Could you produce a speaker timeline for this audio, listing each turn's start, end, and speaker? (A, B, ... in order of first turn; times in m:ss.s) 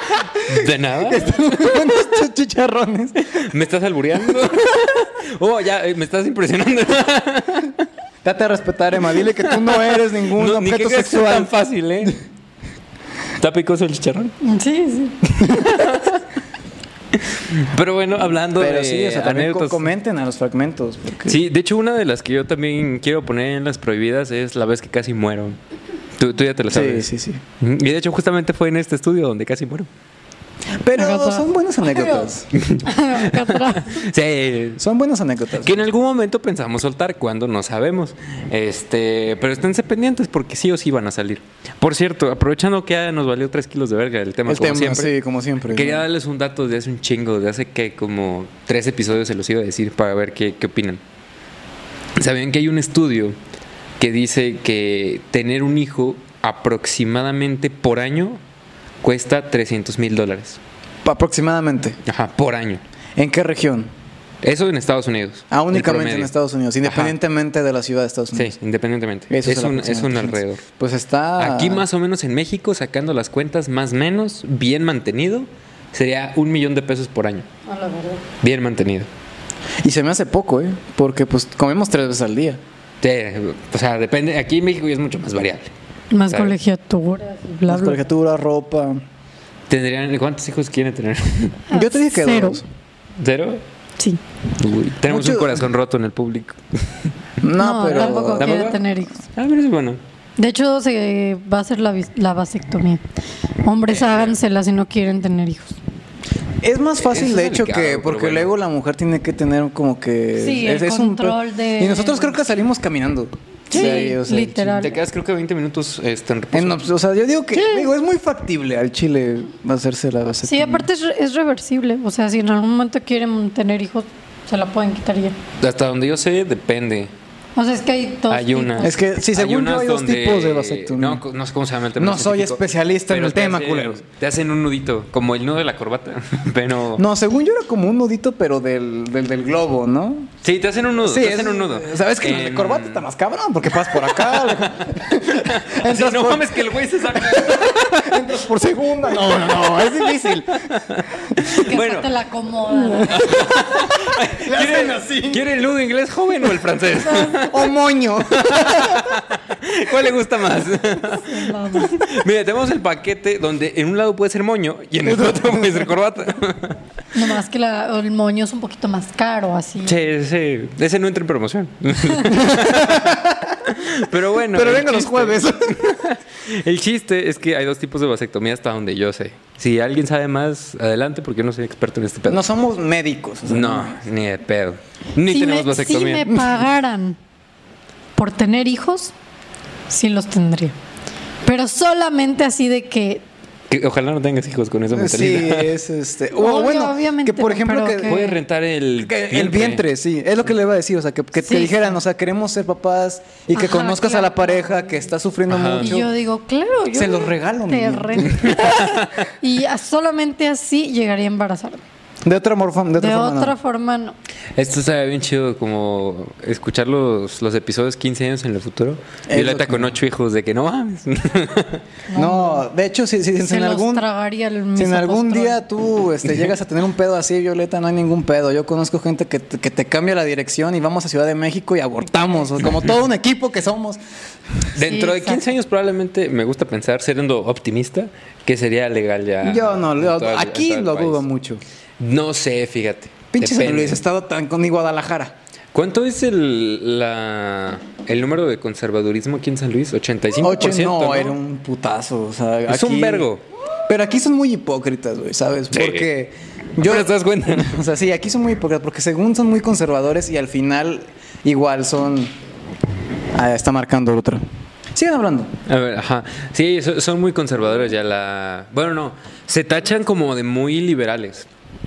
0:00.4-0:02.0 A
0:01.0-0:03.3 B
0:03.2-0:07.8 A
0:08.2-0:12.1 B
0:09.4-0:12.2 A
0:13.4-0:14.3 A
0:14.4-0:15.2 C
0:15.4-0:16.2 A
0:17.2-0:19.9 A
0:18.5-0:21.4 B
0:21.3-0:25.6 A
0:26.2-0:27.1 A
0:26.7-0:27.4 B
0:27.6-0:29.9 A
0:30.8-0:32.5 B
0:31.0-0:32.3 C
0:32.5-0:34.8 A
0:32.8-0:34.0 C
0:34.8-0:35.8 B
0:35.6-0:45.1 A
0:44.5-0:46.0 B
0:45.7-0:51.0 A
0:52.2-0:53.4 A
0:54.0-0:58.4 A
0:59.0-1:00.6 A
1:01.0-1:02.0 B
1:02.1-1:02.8 A
1:03.2-1:03.9 B
1:04.4-1:06.3 A
1:05.5-1:08.6 B
1:06.8-1:07.2 A
1:08.3-1:10.6 A
1:09.3-1:11.8 B
1:11.4-1:17.5 A
1:17.7-1:18.2 C
1:18.4-1:19.1 A
1:19.8-1:22.6 B
1:23.0-1:25.7 A
1:26.1-1:28.0 C
1:27.7-1:29.0 B
1:29.7-1:31.6 A
1:31.7-1:32.6 C
1:31.7-1:32.7 B
1:33.2-1:33.6 A
1:34.6-1:36.6 A
1:35.1-1:35.6 B
1:37.4-1:38.8 B
1:37.6-1:39.2 C
1:37.9-1:38.8 A
1:39.4-1:40.0 A
1:40.4-1:43.0 C
1:43.6-1:45.8 C
1:43.9-1:44.4 A
1:46.6-1:55.0 B
1:47.0-1:48.5 A
1:50.4-1:52.4 C
1:53.7-1:55.0 C
1:53.7-1:54.2 A
1:54.8-1:56.8 A
1:56.5-2:00.9 B
1:57.5-1:57.9 C
2:00.4-2:05.4 C
2:05.6-2:07.1 A
2:07.6-2:09.0 C
2:08.3-2:17.0 A
2:08.8-2:11.2 B
2:12.0-2:14.0 B
2:17.0-2:20.3 B
2:20.4-2:23.0 A
2:21.0-2:30.7 B
2:23.9-2:28.3 A
2:29.3-2:32.1 A
2:31.5-2:33.2 C
2:32.9-2:35.5 B
2:33.1-2:37.7 A
2:37.2-2:39.2 B
2:38.2-2:46.8 A
2:41.0-2:42.0 C
2:45.0-2:46.0 B
2:47.1-2:50.0 C
2:49.8-3:02.4 A
2:52.4-2:53.5 B
2:54.5-2:55.9 B
3:02.3-3:04.0 B
3:03.5-3:06.5 A
3:05.2-3:07.2 C
3:08.2-3:09.1 C
3:09.9-3:10.8 C
3:11.4-3:13.2 C
3:13.7-3:15.8 A
3:14.9-3:18.2 B
3:16.4-3:18.4 C
3:18.1-3:19.9 A
3:19.0-3:26.1 B
3:21.4-3:22.0 C
3:23.5-3:24.9 C
3:25.5-3:26.0 A
3:25.8-3:31.8 C
3:26.9-3:28.6 B
3:28.4-3:29.1 A
3:32.2-3:33.6 B
3:33.0-3:34.2 C
3:34.6-3:41.8 A
3:39.3-3:39.9 B
3:42.1-3:42.7 C
3:42.1-3:44.0 B
3:43.4-3:45.6 C
3:44.8-3:54.0 B
3:54.8-4:01.2 A
3:54.8-3:55.4 C
3:59.4-4:01.6 B
4:02.0-4:04.0 A
4:03.3-4:05.3 B
4:05.7-4:11.4 A
4:10.4-4:13.3 B
4:12.7-4:13.4 A
4:13.9-4:22.3 B
4:15.7-4:16.1 A
4:16.8-4:17.8 A
4:23.4-4:24.4 B
4:24.9-4:25.5 B
4:25.7-4:31.5 A